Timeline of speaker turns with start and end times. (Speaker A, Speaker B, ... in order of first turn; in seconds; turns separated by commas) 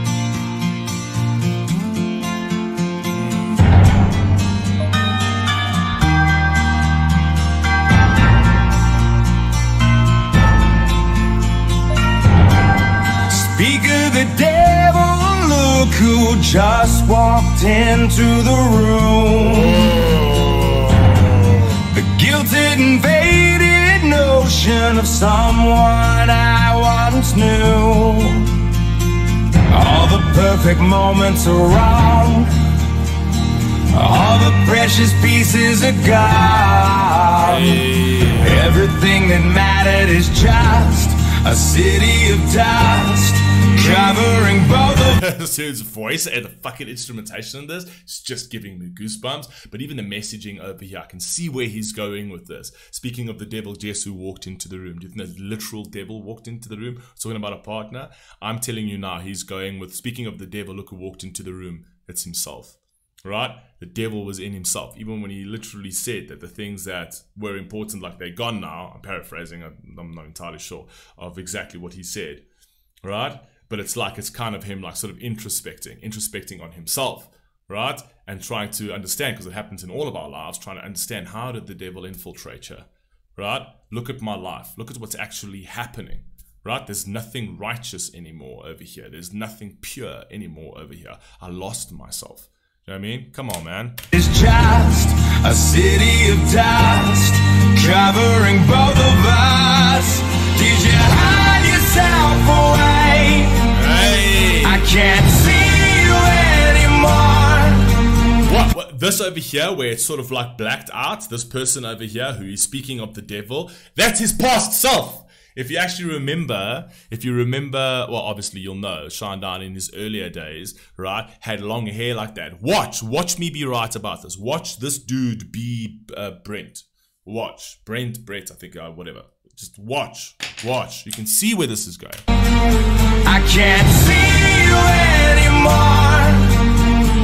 Speaker A: 13.3-20.1, Speaker B: 19.8-20.9, Speaker A: 21.8-28.6, Speaker A: 29.7-32.5, Speaker A: 33.9-45.2, Speaker B: 37.4-38.7, Speaker B: 45.0-72.4, Speaker B: 73.0-94.0, Speaker A: 94.1-103.7, Speaker B: 103.7-104.9, Speaker A: 104.6-108.1, Speaker B: 108.4-132.2, Speaker A: 133.2-136.7